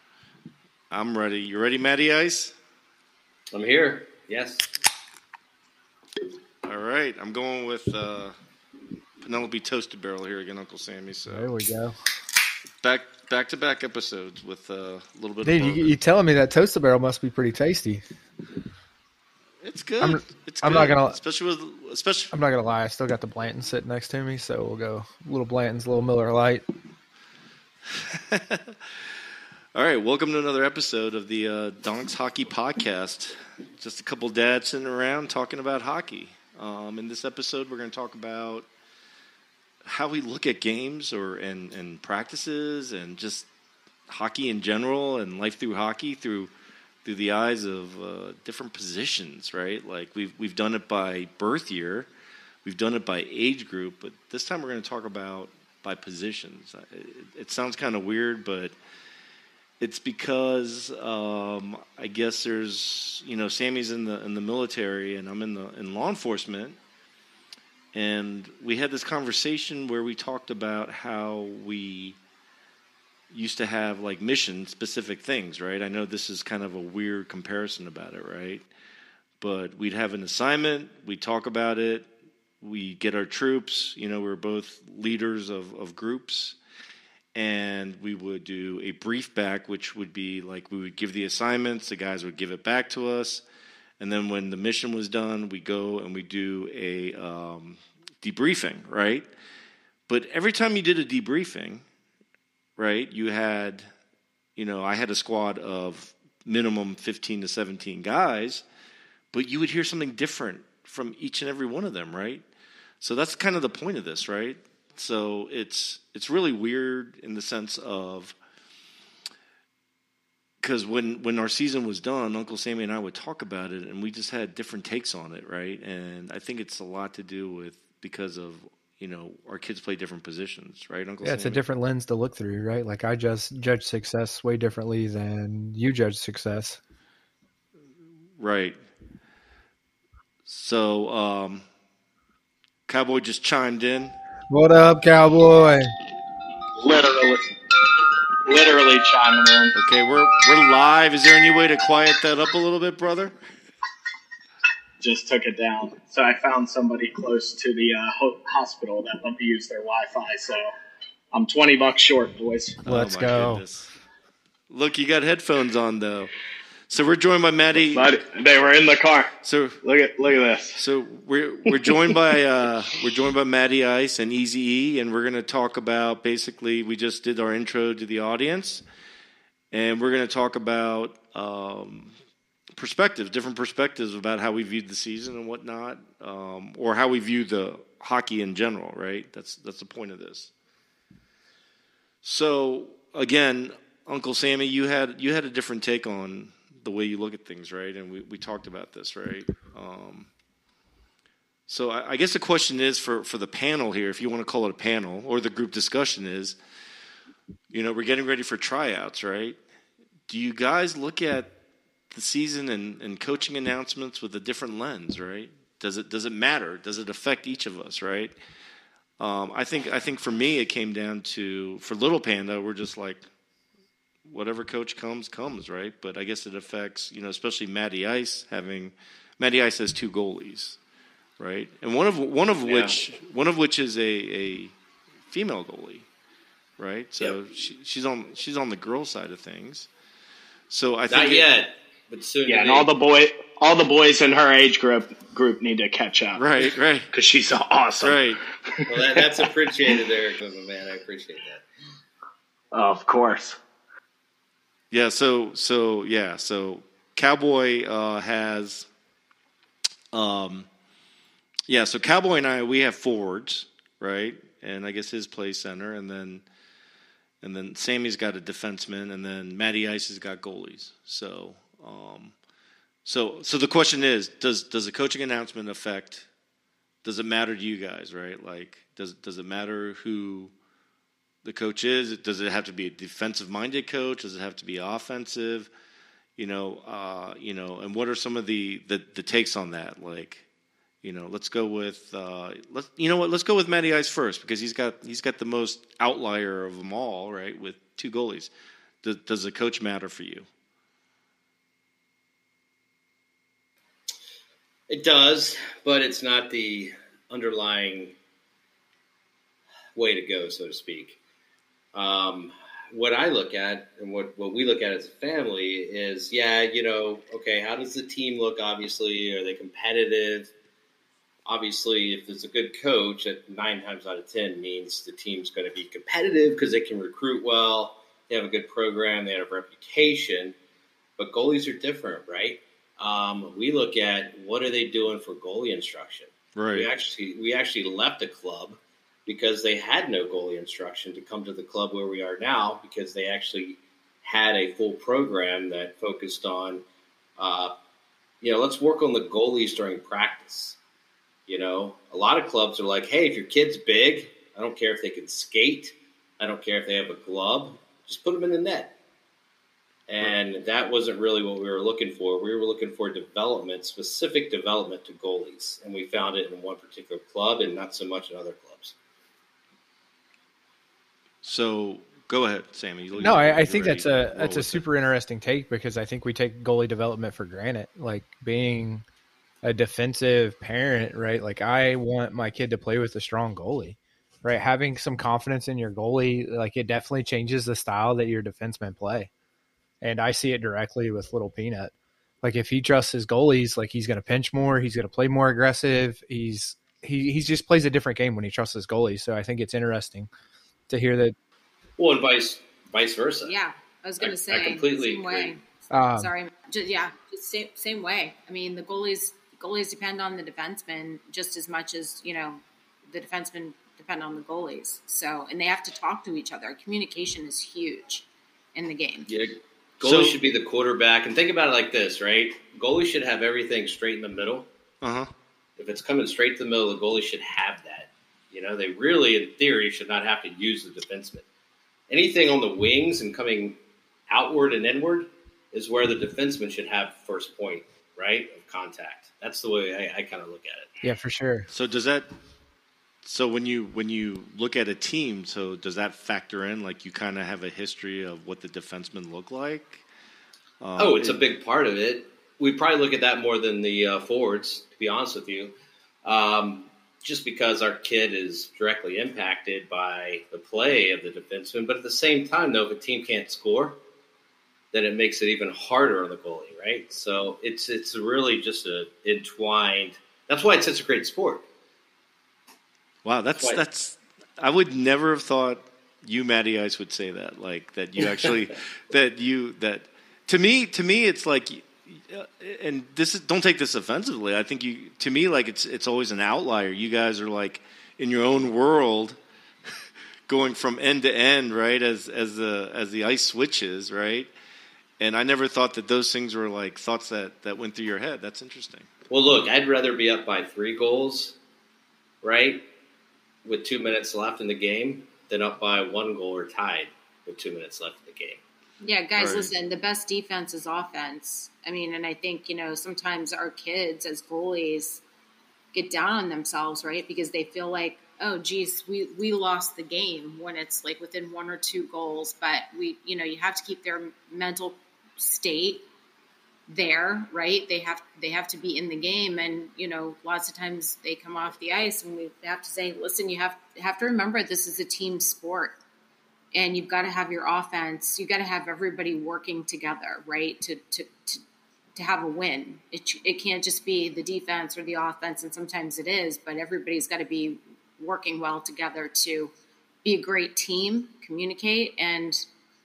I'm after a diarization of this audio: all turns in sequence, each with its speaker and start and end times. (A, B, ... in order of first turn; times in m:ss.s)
0:00.9-0:02.5 A
0:03.5-0:04.7 B
0:06.6-0:08.4 A
0:09.2-0:11.5 A
0:11.3-0:12.0 C
0:12.8-0:15.9 A
0:15.4-0:18.0 C
0:19.6-0:22.3 A
0:20.0-0:21.2 C
0:22.3-0:26.6 C
0:27.9-0:28.8 A
0:29.7-0:38.7 A
0:39.8-0:43.5 A
0:44.1-0:46.5 A
0:47.0-0:52.1 A
0:52.6-0:58.7 A
0:59.8-1:06.8 A
1:07.9-1:12.2 A
1:13.3-1:18.7 A
1:19.4-1:22.1 A
1:22.6-1:26.6 A
1:27.4-1:33.4 A
1:34.0-1:39.3 A
1:40.1-1:41.8 A
1:42.8-1:43.9 A
1:44.6-1:48.6 A
1:49.3-1:52.4 A
1:53.0-1:58.4 A
2:00.6-2:11.6 A
2:11.2-2:16.8 C
2:18.4-2:18.8 A
2:20.5-2:21.6 A
2:22.9-2:24.2 A
2:24.5-2:25.9 C
2:26.8-2:27.5 D
2:28.4-2:29.8 D
2:29.8-2:33.4 A
2:35.0-2:40.7 D
2:41.3-2:42.8 D
2:42.8-2:43.9 A
2:42.9-2:43.6 C
2:44.7-2:46.3 A
2:46.9-2:48.1 A
2:47.8-2:49.3 D
2:49.4-2:49.8 A
2:49.8-2:50.8 D
2:50.8-2:58.8 A
2:59.7-3:02.1 A
3:02.8-3:10.5 A
3:12.2-3:20.3 A
3:21.7-3:26.6 A
3:27.7-3:29.6 A
3:30.3-3:31.5 A
3:32.1-3:38.4 A
3:39.2-3:43.2 A
3:44.2-3:50.8 A
3:51.4-3:54.7 A
3:52.6-3:53.0 B
3:55.3-3:56.1 A
3:56.8-3:59.9 A
4:00.7-4:01.5 A
4:01.1-4:02.9 B
4:02.5-4:06.5 D
4:06.4-4:07.1 A
4:07.1-4:08.2 D
4:08.0-4:08.4 A
4:08.8-4:09.2 D
4:08.9-4:11.6 B
4:12.7-4:13.6 D
4:14.9-4:18.9 A
4:20.1-4:20.7 A
4:21.7-4:26.4 A
4:27.4-4:32.4 A
4:33.0-4:36.3 A
4:37.0-4:40.5 A
4:41.4-4:45.7 A
4:46.4-4:50.4 A
4:51.0-4:58.5 A
4:59.0-5:00.5 A
5:04.9-5:08.2 B
5:10.0-5:11.2 B
5:11.9-5:20.5 B
5:21.5-5:30.6 B
5:31.2-5:46.8 B
5:36.6-5:36.9 A
5:47.4-5:47.7 B
5:48.4-5:50.8 B
5:51.5-5:59.0 B
6:00.1-6:09.0 B
6:11.4-6:14.9 A
6:13.2-6:19.0 C
6:19.6-6:29.3 C
6:30.0-6:40.3 C
6:40.9-6:41.4 C
6:42.0-6:43.5 B
6:43.4-6:59.3 E
6:44.2-6:45.5 B
6:45.9-6:46.3 C
6:59.3-7:04.7 B
7:00.0-7:00.4 A
7:05.0-7:05.3 A
7:05.8-7:11.5 B
7:12.1-7:13.8 B
7:14.3-7:20.9 B
7:21.0-7:21.7 C
7:21.7-7:22.3 A
7:23.2-7:30.0 A
7:30.8-7:31.4 A
7:31.0-7:44.0 B
7:44.9-7:51.7 B
7:53.2-8:09.4 A
7:53.6-7:53.8 B
8:10.5-8:14.5 A
8:15.2-8:19.1 A
8:19.3-8:21.6 B
8:22.4-8:22.9 B
8:23.6-8:28.6 B
8:29.0-8:35.2 E
8:29.4-8:29.7 A
8:35.9-8:46.0 E
8:46.9-8:56.0 E
8:56.7-9:01.6 E
9:02.2-9:09.7 E
9:10.2-9:12.6 E